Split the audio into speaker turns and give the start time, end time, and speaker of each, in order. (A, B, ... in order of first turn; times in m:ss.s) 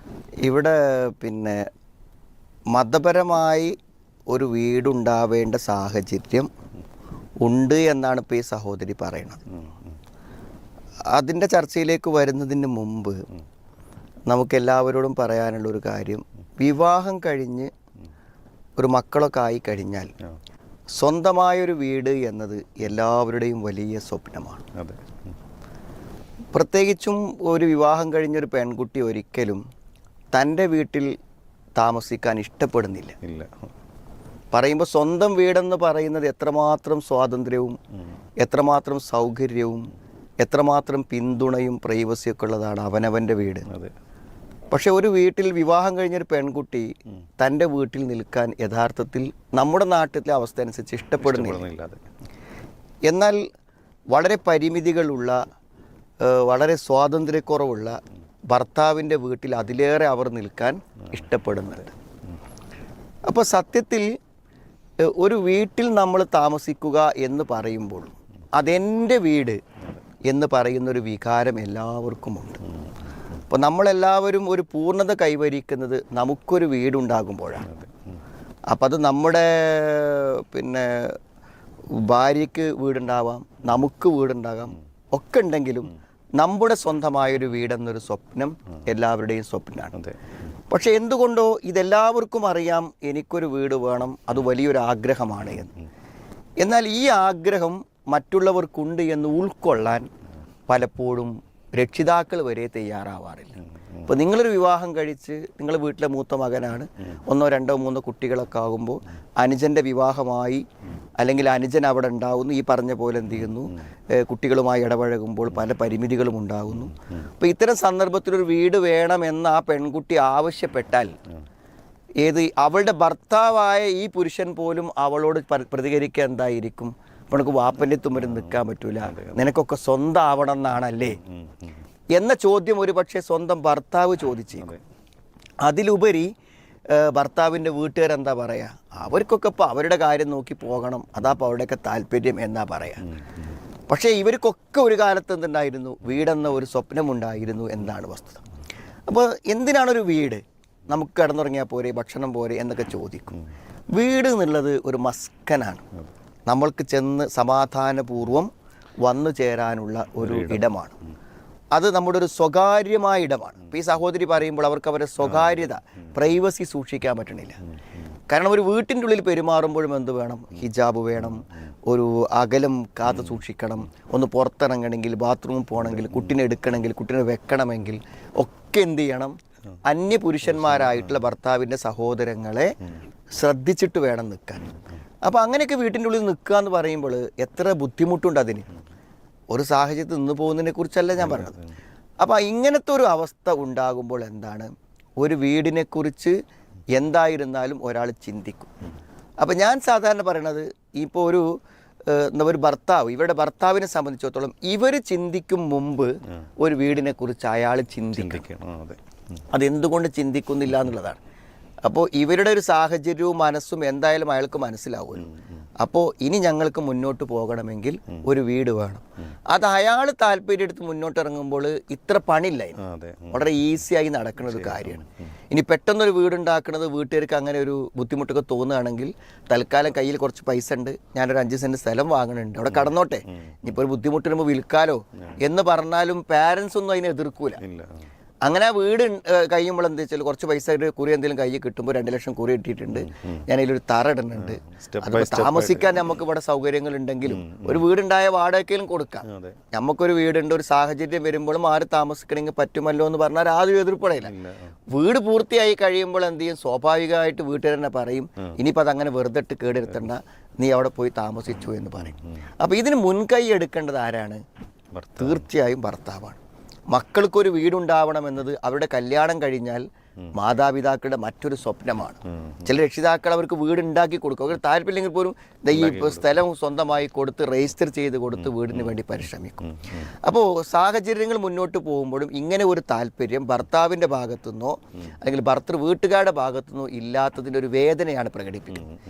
0:00.4-0:01.7 A
0:02.7-0:03.8 A
0:04.3-0:06.5 A
0:07.4-0:09.4 A
0:11.1-0:13.2 A
0:14.3-0:17.7 A
0:18.8-0:20.1 A
0:20.9-0:24.7 A
0:24.8-0:25.1 B
0:26.5-0:29.6 A
0:30.3-0:31.2 A
0:31.8-0:33.2 A
0:33.2-0:33.6 B
0:34.5-0:37.8 A
0:38.4-0:39.9 A
0:40.4-0:43.7 A
0:43.7-0:43.9 B
0:44.7-0:51.6 A
0:51.2-0:52.0 B
0:53.1-0:53.4 A
0:54.1-0:55.4 A
0:56.2-0:58.0 A
0:58.5-1:01.9 A
1:03.3-1:04.2 A
1:05.0-1:09.6 A
1:10.2-1:12.6 A
1:13.5-1:17.7 A
1:17.7-1:18.0 B
1:18.7-1:21.2 A
1:21.9-1:30.0 A
1:30.7-1:35.8 A
1:36.6-1:40.1 A
1:40.7-1:50.7 A
1:51.2-2:01.2 A
2:02.2-2:11.2 A
2:09.0-2:09.4 B
2:11.2-2:11.7 B
2:12.1-2:14.7 A
2:15.6-2:16.3 A
2:16.9-2:23.1 A
2:23.9-2:28.4 A
2:29.1-2:33.4 A
2:33.9-2:35.8 A
2:36.5-2:38.5 A
2:39.0-2:40.9 A
2:40.2-2:40.7 B
2:41.7-2:47.6 A
2:48.3-3:02.7 A
3:00.6-3:01.0 B
3:03.3-3:04.7 A
3:05.2-3:08.7 A
3:09.5-3:11.6 A
3:11.2-3:11.6 B
3:12.2-3:16.4 A
3:16.9-3:18.7 A
3:19.4-3:21.5 A
3:22.1-3:28.4 A
3:28.1-3:29.0 B
3:29.5-3:31.2 A
3:31.8-3:57.6 A
3:42.8-3:43.5 B
3:44.5-3:45.0 B
3:57.6-3:58.0 B
3:58.4-4:14.3 A
4:03.0-4:03.4 B
4:04.3-4:06.0 B
4:07.3-4:07.8 B
4:09.2-4:09.6 B
4:14.2-4:14.7 B
4:14.9-4:24.4 A
4:24.9-4:25.4 B
4:25.2-4:26.4 A
4:26.9-4:48.9 A
4:35.7-4:36.3 B